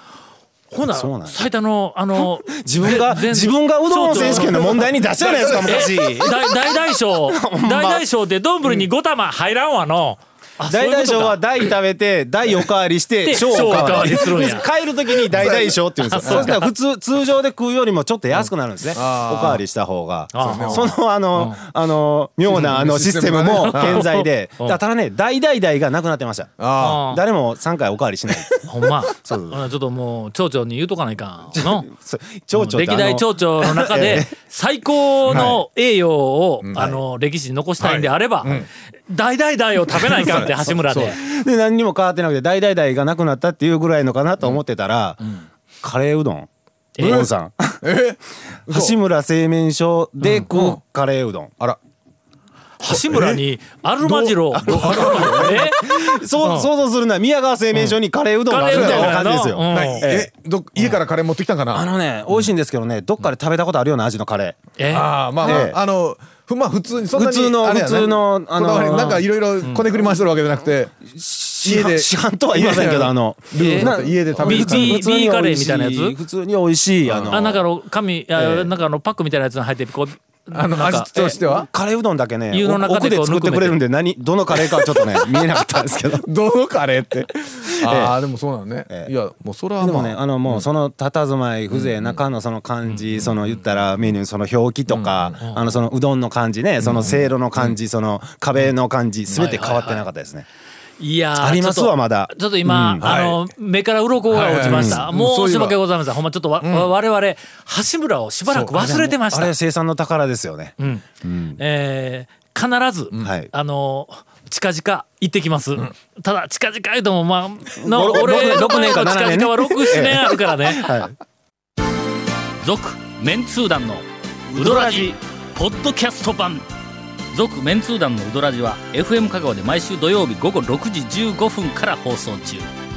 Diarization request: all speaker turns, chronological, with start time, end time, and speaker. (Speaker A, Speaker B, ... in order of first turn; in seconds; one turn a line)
Speaker A: 0.7-5.0
Speaker B: 0.8-1.5
Speaker B: 2.2-8.0
Speaker C: 5.3-5.9
Speaker A: 5.6-11.7
Speaker B: 10.7-28.6
Speaker A: 13.2-14.7
Speaker C: 13.6-13.8
Speaker C: 15.2-16.5
Speaker A: 16.0-16.7
Speaker C: 18.9-19.6
Speaker A: 20.3-21.6
Speaker C: 20.4-20.9
Speaker C: 22.4-24.1
Speaker A: 22.5-22.8
Speaker A: 23.5-24.8
Speaker C: 26.6-27.1
Speaker A: 26.8-27.2
Speaker A: 28.7-31.9
Speaker B: 29.1-29.6
Speaker B: 31.5-34.3
Speaker A: 32.5-41.2
Speaker C: 35.2-35.6
Speaker C: 36.6-37.0
Speaker C: 37.8-38.7
Speaker C: 39.9-41.1
Speaker B: 40.3-45.2
Speaker B: 45.8-47.9
Speaker A: 47.0-47.2
Speaker C: 47.0-47.3
Speaker C: 47.8-48.9
Speaker B: 48.7-51.5
Speaker C: 50.5-50.8
Speaker A: 52.8-56.7
Speaker C: 52.8-53.4
Speaker C: 54.0-55.6
Speaker B: 55.0-60.3
Speaker A: 57.7-60.2
Speaker C: 58.6-62.5
Speaker B: 61.7-64.6
Speaker A: 64.8-65.7
Speaker C: 64.9-75.0
Speaker B: 65.4-65.8
Speaker B: 67.1-69.3
Speaker B: 71.1-77.6
Speaker A: 73.5-76.2
Speaker C: 77.0-77.4
Speaker A: 77.3-81.4
Speaker B: 78.3-78.7
Speaker C: 80.5-81.7
Speaker B: 81.4-86.3
Speaker A: 82.5-83.8
Speaker C: 84.5-85.6
Speaker C: 86.2-90.7
Speaker B: 87.8-88.2
Speaker B: 89.8-100.5
Speaker C: 91.7-92.2
Speaker A: 92.8-93.6
Speaker C: 94.9-95.4
Speaker A: 95.4-95.7
Speaker C: 96.8-97.8
Speaker A: 99.3-100.0
Speaker A: 101.0-109.5
Speaker B: 101.4-103.1
Speaker C: 103.0-103.4
Speaker C: 104.3-105.8
Speaker B: 104.4-105.1
Speaker C: 106.6-106.9
Speaker C: 108.5-108.8
Speaker B: 108.8-111.6
Speaker A: 110.8-111.0
Speaker A: 111.6-121.1
Speaker B: 113.2-113.5
Speaker B: 117.8-121.1
Speaker A: 122.6-126.7
Speaker B: 124.5-125.1
Speaker A: 127.3-132.7